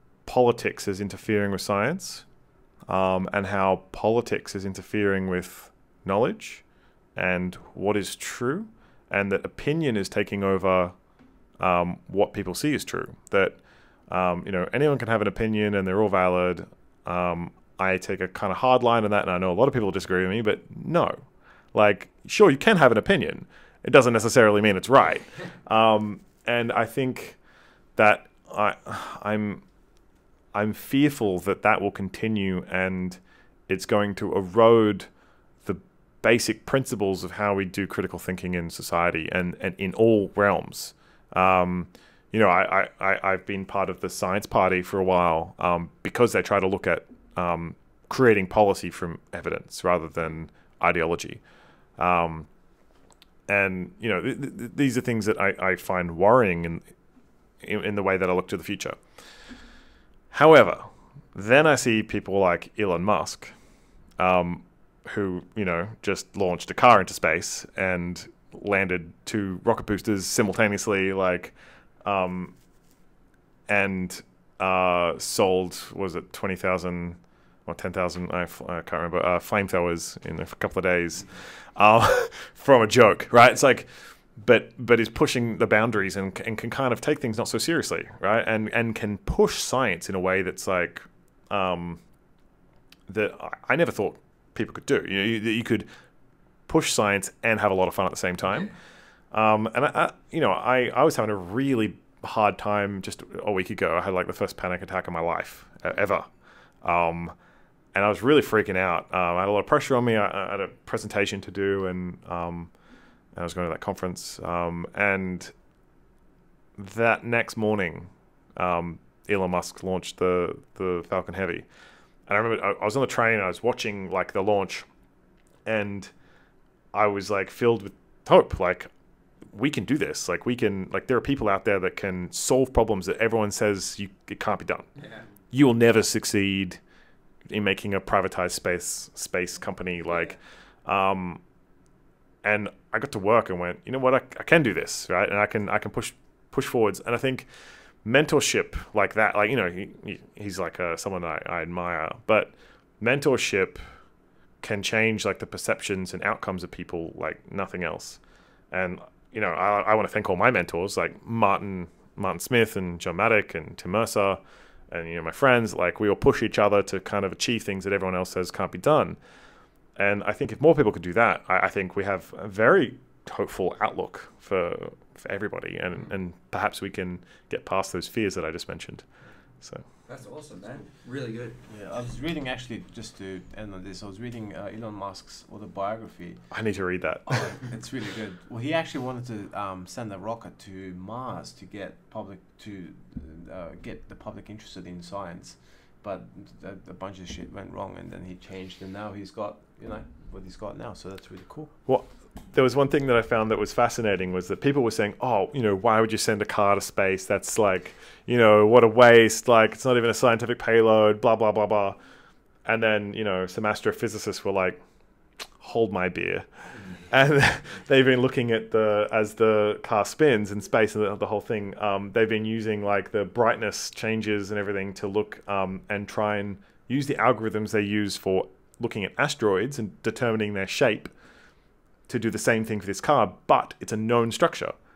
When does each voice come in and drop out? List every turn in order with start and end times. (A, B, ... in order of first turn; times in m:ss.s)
0:00.2-0:02.2 A
0:02.9-0:06.6 A
0:07.2-0:11.0 A
0:11.6-0:27.4 A
0:28.0-0:29.6 A
0:30.5-0:35.1 A
0:35.6-0:51.4 A
0:52.0-0:52.5 A
0:53.5-0:56.8 A
0:57.6-0:59.0 A
1:00.3-1:03.5 A
1:04.2-1:12.6 A
1:13.7-1:32.0 A
1:33.1-1:35.9 A
1:36.7-1:38.7 A
1:38.4-1:38.7 B
1:39.3-1:46.3 A
1:46.8-1:47.4 A
1:47.9-1:52.7 A
1:53.4-1:55.5 A
1:56.8-2:01.7 A
2:02.3-2:04.9 A
2:05.7-2:06.1 A
2:06.9-2:08.9 A
2:09.5-2:14.9 A
2:15.0-2:15.3 B
2:15.5-2:16.8 A
2:17.5-2:21.4 A
2:22.4-2:27.5 A
2:28.0-2:33.8 A
2:34.6-2:38.2 A
2:38.7-2:49.2 A
2:50.0-2:59.0 A
3:00.1-3:01.6 B
3:01.7-3:06.5 C
3:06.5-3:07.6 A
3:07.5-3:21.7 C
3:21.9-3:32.0 A
3:32.6-3:34.8 A
3:35.6-3:36.5 A
3:37.1-3:51.1 A
3:52.1-3:54.8 A